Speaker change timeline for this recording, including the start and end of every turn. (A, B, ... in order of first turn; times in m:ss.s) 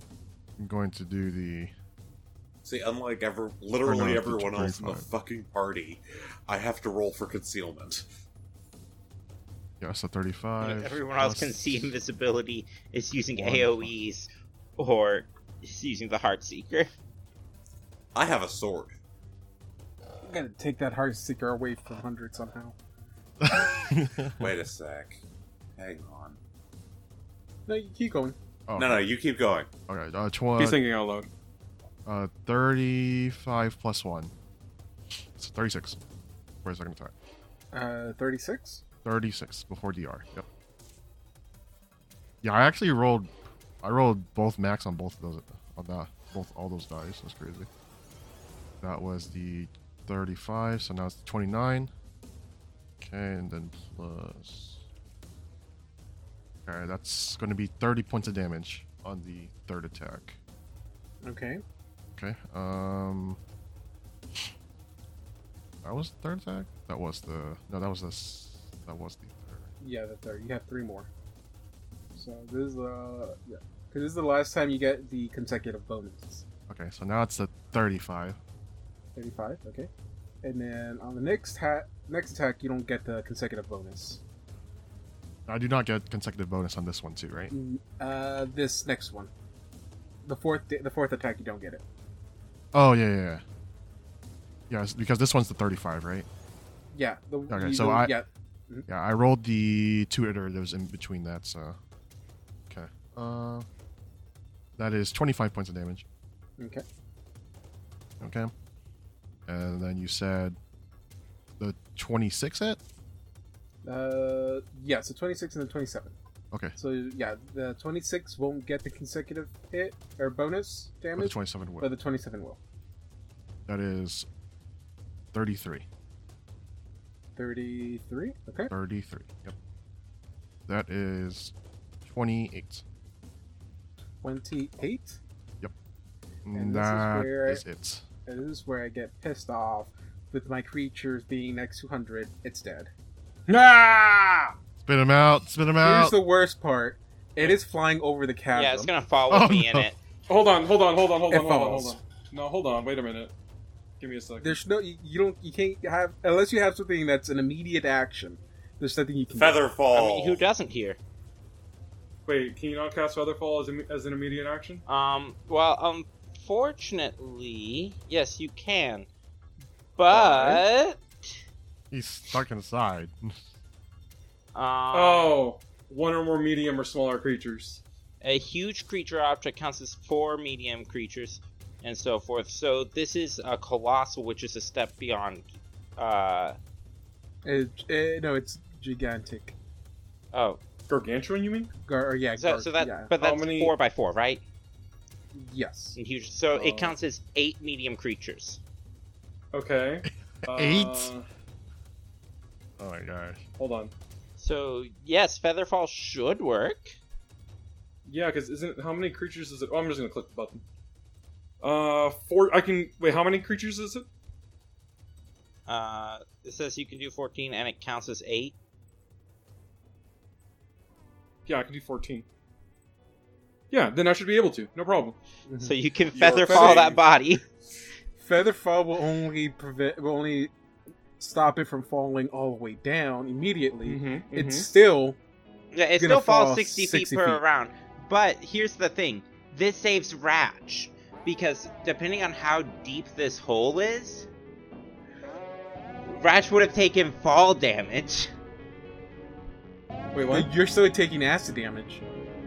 0:00.6-0:01.7 A
0:02.6-0:08.0 B
0:03.8-0:05.0 A
0:09.8-0:11.9 A
0:10.6-0:16.9 C
0:13.4-0:13.9 A
0:18.1-0:19.0 B
0:20.2-0:22.8 D
0:23.4-0:24.5 A
0:24.3-0:25.2 B
0:25.8-0:26.4 B
0:27.7-0:28.4 D
0:28.7-0:29.1 A
0:28.8-0:29.7 B
0:29.9-0:30.8 A
0:30.6-0:31.3 E
0:32.0-0:34.3 A
0:35.4-0:36.0 A
0:36.6-0:37.1 A
0:37.7-0:38.8 D
0:39.0-0:40.4 A
0:42.4-0:43.3 A
0:43.8-0:47.7 A
0:48.8-0:51.9 A
0:53.0-0:54.8 A
0:56.6-1:00.4 A
1:01.2-1:01.6 D
1:02.1-1:03.4 A
1:05.8-1:09.7 A
1:09.8-1:11.1 D
1:12.1-1:16.4 D
1:16.7-1:18.4 A
1:19.2-1:19.9 D
1:20.4-1:24.2 D
1:25.5-1:27.5 A
1:27.5-1:29.3 D
1:30.2-1:31.8 D
1:32.7-1:33.4 A
1:34.7-1:36.2 A
1:36.9-1:38.9 D
1:37.5-1:38.1 A
1:38.9-1:41.8 A
1:42.7-1:43.6 A
1:44.8-1:46.0 A
1:46.6-1:46.8 D
1:48.2-1:48.5 A
1:49.4-1:50.6 A
1:51.6-1:52.8 A
1:53.8-1:56.1 D
1:56.8-2:02.6 D
2:01.2-2:01.9 A
2:03.7-2:04.2 A
2:05.3-2:05.8 A
2:07.4-2:08.7 D
2:08.7-2:09.6 A
2:10.7-2:12.8 A
2:14.2-2:15.2 D
2:16.4-2:18.0 A
2:16.5-2:17.6 D
2:18.2-2:22.9 D
2:23.5-2:24.5 E
2:24.8-2:26.1 A
2:25.8-2:28.9 D
2:28.5-2:30.0 C
2:29.3-2:29.9 A
2:30.3-2:33.3 E
2:31.3-2:32.0 D
2:34.0-2:34.6 E
2:34.4-2:39.6 D
2:39.4-2:40.4 B
2:39.9-2:41.0 C
2:42.2-2:44.8 E
2:44.9-2:49.1 C
2:50.0-2:51.4 C
2:50.1-2:50.5 D
2:51.9-2:53.4 A
2:54.5-2:55.3 C
2:54.9-2:57.8 E
2:58.2-3:05.4 C
3:06.0-3:06.6 C
3:07.4-3:09.5 D
3:10.3-3:10.6 C
3:10.9-3:11.7 E
3:11.8-3:13.1 D
3:12.4-3:14.4 C
3:13.2-3:13.7 E
3:15.3-3:16.0 D
3:16.0-3:18.6 C
3:16.5-3:16.9 D
3:19.5-3:21.2 E
3:20.5-3:21.1 A
3:22.8-3:23.4 A
3:23.6-3:23.9 E
3:24.4-3:27.0 C
3:28.0-3:30.6 E
3:31.6-3:34.1 E
3:35.7-3:38.5 C
3:41.4-3:42.2 E
3:43.7-3:45.2 E
3:45.5-3:45.8 D
3:45.6-3:47.4 C
3:46.1-3:47.0 B
3:46.4-3:46.8 D
3:48.2-3:50.5 D
3:51.2-3:55.2 D
3:53.8-3:54.7 E
3:55.7-4:04.3 C
3:56.0-3:57.4 D
4:06.1-4:08.3 C
4:10.1-4:10.5 E
4:10.3-4:12.0 D